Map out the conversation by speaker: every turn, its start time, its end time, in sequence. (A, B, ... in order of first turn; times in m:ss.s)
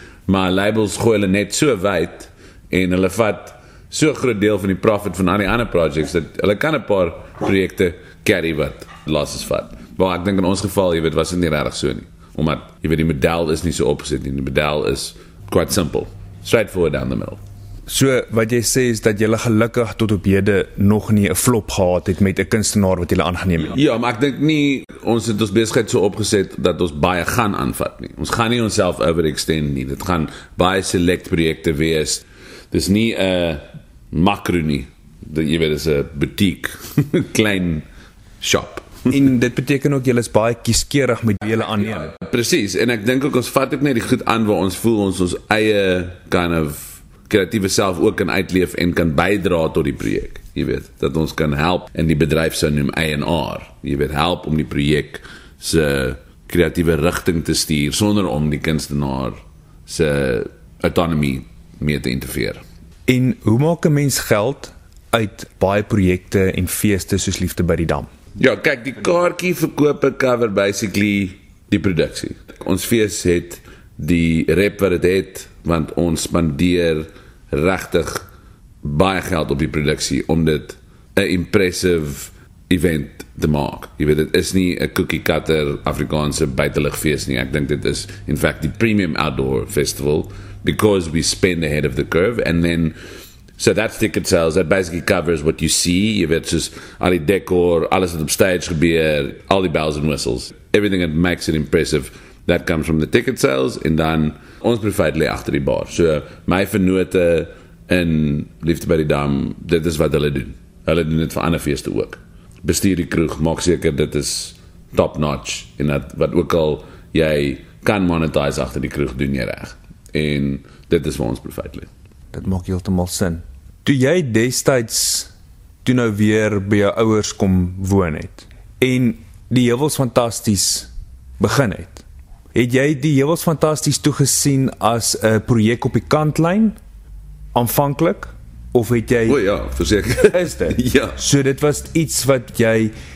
0:00.3-0:17.4 A
0:17.9-0:23.8 B
0:23.7-0:37.8 A
0:38.4-0:39.1 A
0:39.1-0:42.1 B
0:42.1-1:02.6 A
1:03.1-1:08.1 B
1:08.4-1:18.2 A
1:18.8-1:33.0 A
1:33.6-2:01.9 A
2:02.3-2:05.3 B
2:05.8-2:16.7 B
2:17.5-2:19.4 B
2:19.3-2:21.1 A
2:20.3-2:22.9 B